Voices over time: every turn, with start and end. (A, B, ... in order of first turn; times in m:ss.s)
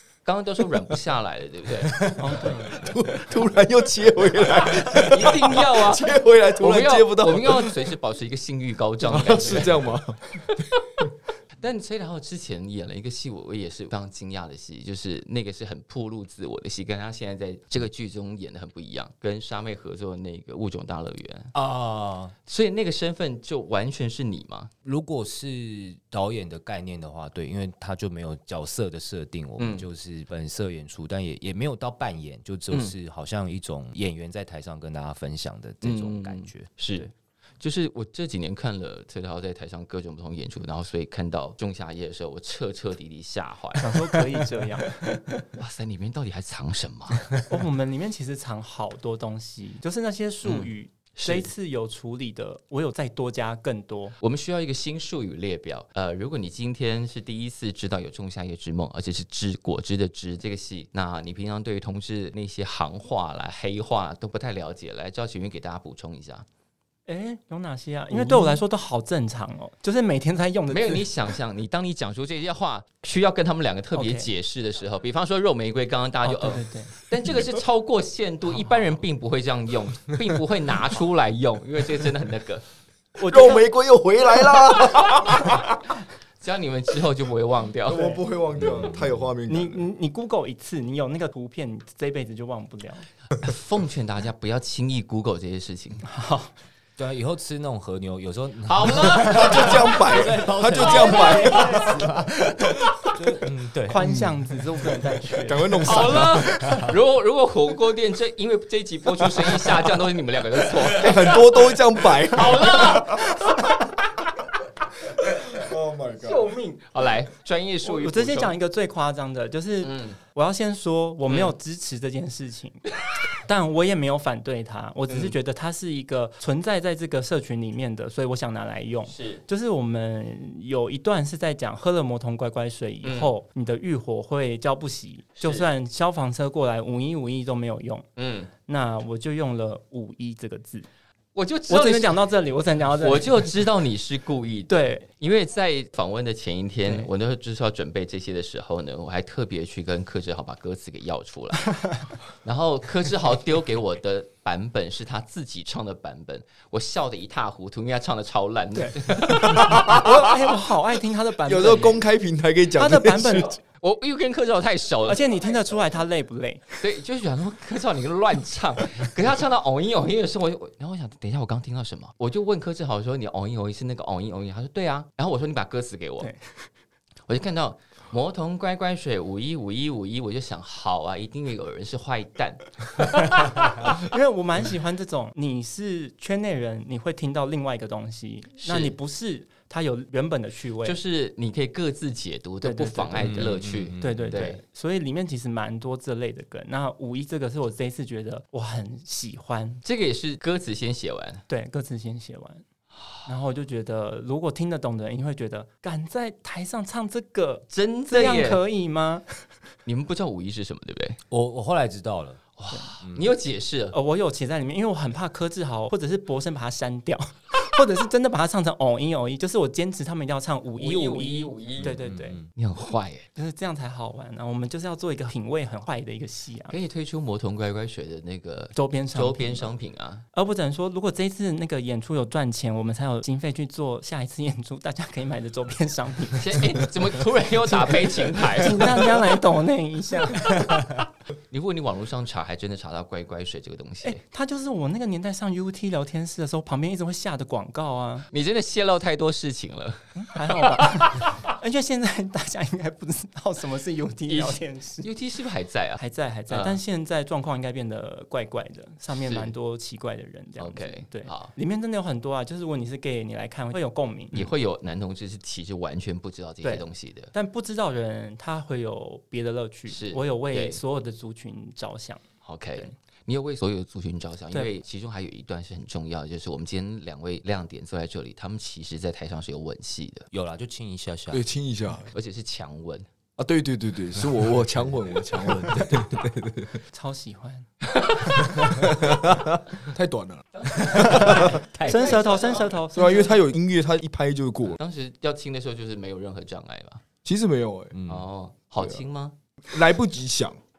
0:00.2-0:02.2 A
0:02.2-0:02.9 B
0:02.7-0:07.8 C
0:04.9-0:09.8 A
0:09.0-0:10.4 C
0:11.6-0:21.5 A
0:21.5-0:22.3 D
0:22.5-0:24.7 A
0:24.8-0:37.0 D
0:29.6-0:29.8 A
0:35.8-0:44.2 A
0:43.8-0:45.4 B
0:45.5-0:47.4 A
0:47.4-0:54.2 B
0:50.4-0:51.5 A
0:54.2-1:06.4 A
1:07.1-1:11.1 B
1:08.2-1:08.5 A
1:10.7-1:22.6 A
1:13.9-1:14.3 B
1:16.2-1:16.9 B
1:23.2-1:23.7 B
1:23.3-1:25.8 C
1:26.4-1:28.2 A
1:27.8-1:29.8 C
1:28.5-1:29.3 D
1:29.5-1:33.0 B
1:33.4-1:36.0 A
1:36.0-1:36.5 B
1:37.0-1:42.5 D
1:38.7-1:41.2 A
1:39.2-1:42.1 C
1:41.2-1:41.8 B
1:43.1-1:44.1 D
1:43.9-1:46.1 B
1:44.0-1:44.3 C
1:45.4-1:46.7 C
1:45.8-1:53.6 A
1:50.9-1:53.2 C
1:55.5-1:56.5 C
1:56.2-1:56.8 B
1:56.8-1:58.5 A
1:57.8-2:02.8 B
1:59.8-2:00.2 A
2:01.3-2:01.5 A
2:03.4-2:18.1 B
2:05.1-2:05.3 A
2:09.1-2:09.4 A
2:13.0-2:13.3 A
2:15.4-2:15.6 A
2:18.2-2:18.5 A
2:18.6-2:20.9 B
2:21.3-2:22.2 A
2:21.7-2:23.3 B
2:23.0-2:31.8 A
2:24.7-2:25.1 B
2:31.7-2:32.0 B
2:32.4-2:40.2 A
2:38.7-2:42.0 B
2:41.4-2:43.5 C
2:42.8-2:43.6 B
2:43.8-2:45.2 A
2:45.0-2:46.7 B
2:46.8-2:56.3 A
2:56.2-2:56.5 B
2:57.3-3:03.5 A
3:03.9-3:11.0 B
3:08.6-3:08.9 A
3:10.8-3:14.6 A
3:12.6-3:19.8 B
3:13.2-3:14.4 D
3:19.8-3:21.4 A
3:21.5-3:22.6 B
3:23.2-3:29.4 B
3:27.7-3:28.6 A
3:29.8-3:31.2 A
3:31.3-3:32.4 D
3:32.6-3:33.9 A
3:33.0-3:33.3 D
3:33.9-3:42.4 B
3:40.7-3:42.0 A
3:41.8-3:42.5 D
3:42.5-3:43.3 A
3:43.3-3:46.7 B
3:46.7-3:50.2 A
3:48.7-3:49.7 B
3:50.3-3:56.8 B
3:56.4-3:59.3 A
3:57.8-4:00.9 B
4:00.4-4:00.8 A
4:01.5-4:04.2 A
4:04.0-4:08.3 B
4:08.3-4:11.3 A
4:10.2-4:15.1 B
4:14.3-4:16.8 A
4:16.0-4:24.5 B
4:19.1-4:19.5 A
4:20.6-4:21.5 A
4:24.3-4:27.3 A
4:26.6-4:32.2 B
4:29.9-4:30.8 A
4:32.4-4:40.3 A
4:40.3-4:41.4 D
4:41.3-4:42.1 C
4:42.1-4:43.1 A
4:43.4-4:46.8 C
4:46.9-4:47.7 B
4:48.2-4:48.5 B
4:48.7-4:51.6 C
4:50.6-4:52.8 A
4:50.9-4:52.2 D
4:51.0-4:53.4 B
4:52.9-4:54.8 C
4:54.8-4:57.0 A
4:57.2-4:58.0 C
4:57.9-4:58.3 D
4:58.1-4:59.3 A
4:59.7-5:00.6 C